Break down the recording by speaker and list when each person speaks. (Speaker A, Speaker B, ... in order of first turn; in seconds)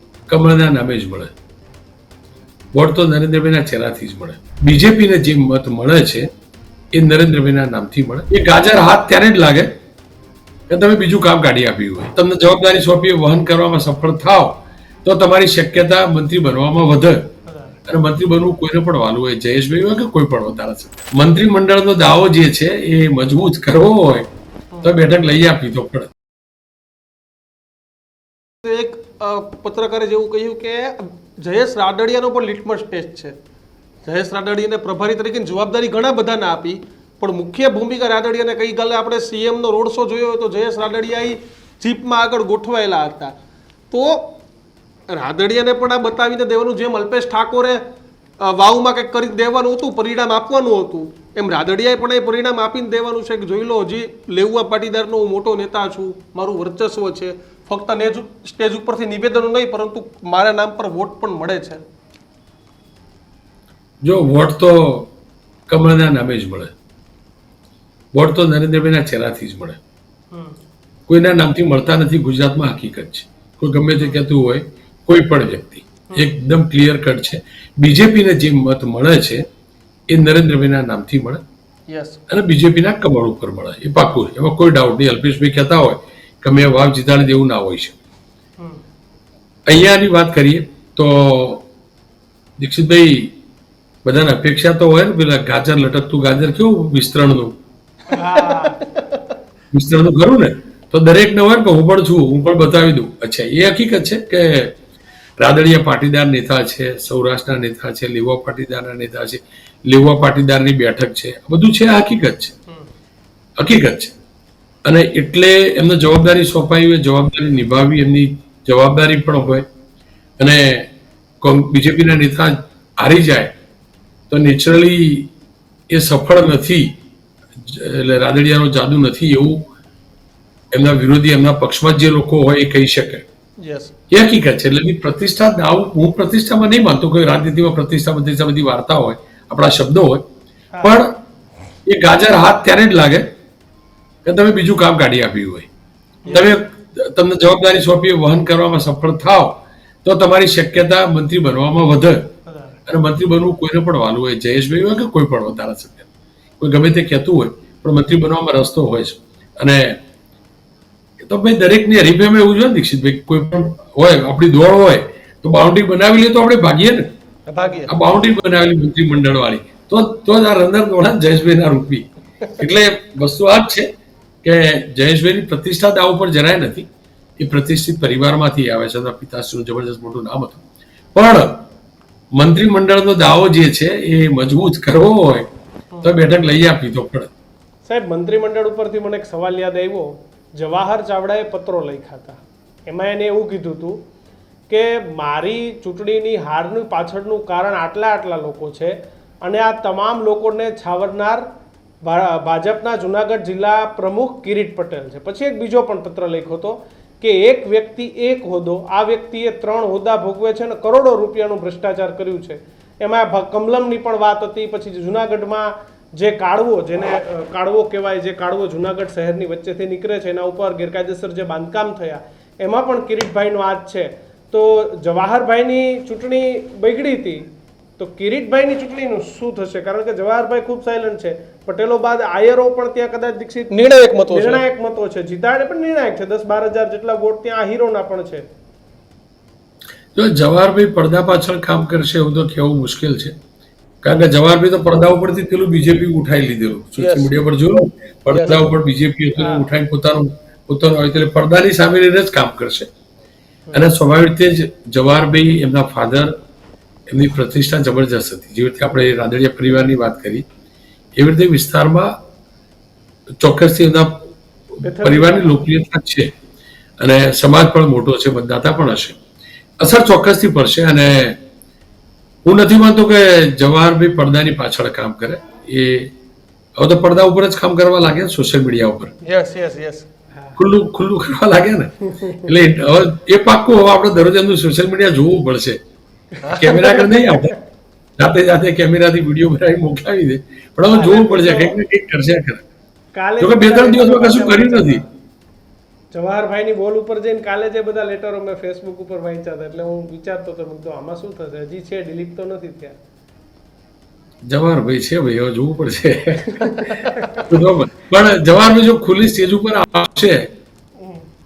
Speaker A: 0.3-1.3, 2.7-6.3, 6.9-9.7, 10.7-17.2, 17.9-24.3, 24.8-26.1, 64.0-65.1, 65.7-66.7, 68.1-69.8, 71.1-79.5, 80.1-81.4, 82.3-88.0, 89.7-91.7, 92.6-93.3, 94.0-97.5, 99.7-104.8, 105.4-112.5, 113.6-114.2, 114.8-119.7, 120.4-123.5, 124.3-125.3, 125.9-127.0, 127.6-129.7, 130.7-133.2, 134.1-140.3, 140.8-141.2, 141.9-143.2, 144.2-145.7, 146.3-152.2, 152.9-156.1, 156.6-160.0, 161.2-167.1, 167.9-173.9, 174.4-176.9, 177.4-180.6, 181.2-181.6, 182.4-185.5, 186.0-187.3, 240.2-243.4, 244.0-252.9, 253.7-256.3, 257.1-260.4, 261.2-262.1, 263.4-266.3, 267.0-269.2, 269.8-271.4, 272.4-276.1, 276.8-279.1, 280.6-285.8, 286.6-287.5, 288.2-292.6, 293.4-295.0, 304.5-310.5
Speaker B: 28.6-33.4, 34.0-43.3, 43.9-44.3, 45.1-47.8, 48.4-61.8, 81.9-82.2, 98.2-99.0, 133.6-133.9, 146.2-146.5, 167.5-167.9, 233.7-234.6, 247.0-247.3, 248.3-248.7, 279.2-280.1, 286.4-286.9, 307.0-307.4
Speaker C: 98.1-98.8, 187.9-194.0, 194.7-201.4, 202.0-227.4, 228.0-233.7, 234.3-238.5, 249.4-249.7, 264.8-265.5, 282.1-282.5, 287.0-287.5, 290.9-291.8, 293.1-295.1, 296.1-302.9, 306.6-306.9